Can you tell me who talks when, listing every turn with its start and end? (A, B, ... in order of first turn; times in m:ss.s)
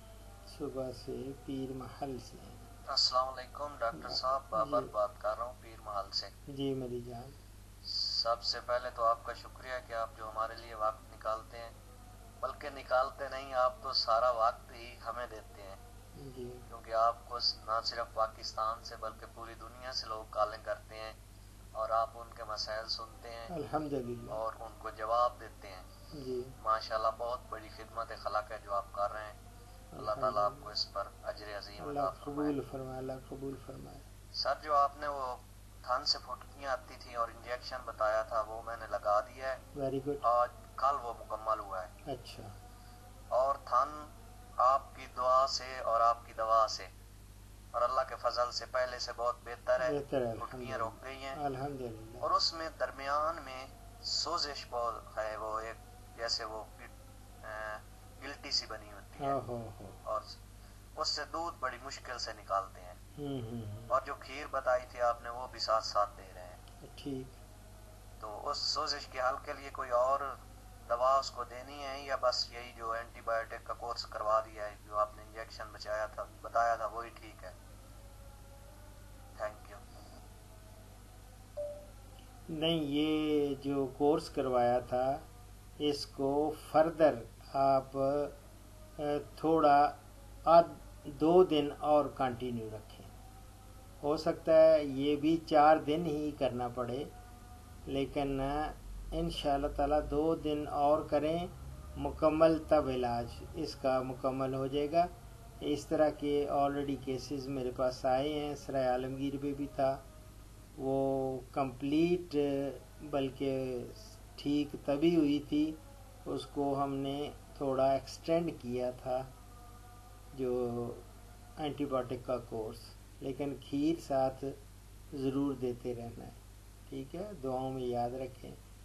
0:00.4-0:02.7 A
0:02.9-0:06.3 B
0:03.9-0:04.9 A
0:06.5-0:07.4 A
0:07.8-0:11.7 B
0:12.4-0:15.8 B
0:16.2-0:16.7 A
0:16.7-0:21.2 B
0:21.8-0:23.5 B
0:23.5-0:24.4 A
0:24.3-0:25.9 B
0:26.1-0:26.6 A
0:26.6-0:29.4 B
0:29.9-0:30.7 A
0:30.0-0:32.6 B
0:31.8-0:34.0 A
0:34.4-0:39.6 B
0:39.8-0:40.2 A
0:40.2-0:41.9 B
0:42.1-0:42.6 A
0:43.3-0:46.9 B
0:47.7-0:51.4 B
0:49.8-0:52.3 A
0:52.2-0:59.4 B
0:59.2-1:00.0 A
1:00.0-1:00.3 B
1:01.0-1:03.0 B
1:03.2-1:04.0 A
1:03.9-1:06.6 B
1:06.8-1:07.4 A
1:08.2-1:10.3 B
1:10.9-1:17.6 B
1:19.4-1:19.8 B
1:22.5-1:25.2 A
1:25.8-1:28.4 A
1:29.0-1:33.1 A
1:34.0-1:37.1 A
1:37.9-1:50.0 A
1:50.8-1:59.3 A
2:00.3-2:01.1 A
2:01.6-2:04.6 A
2:05.1-2:08.6 A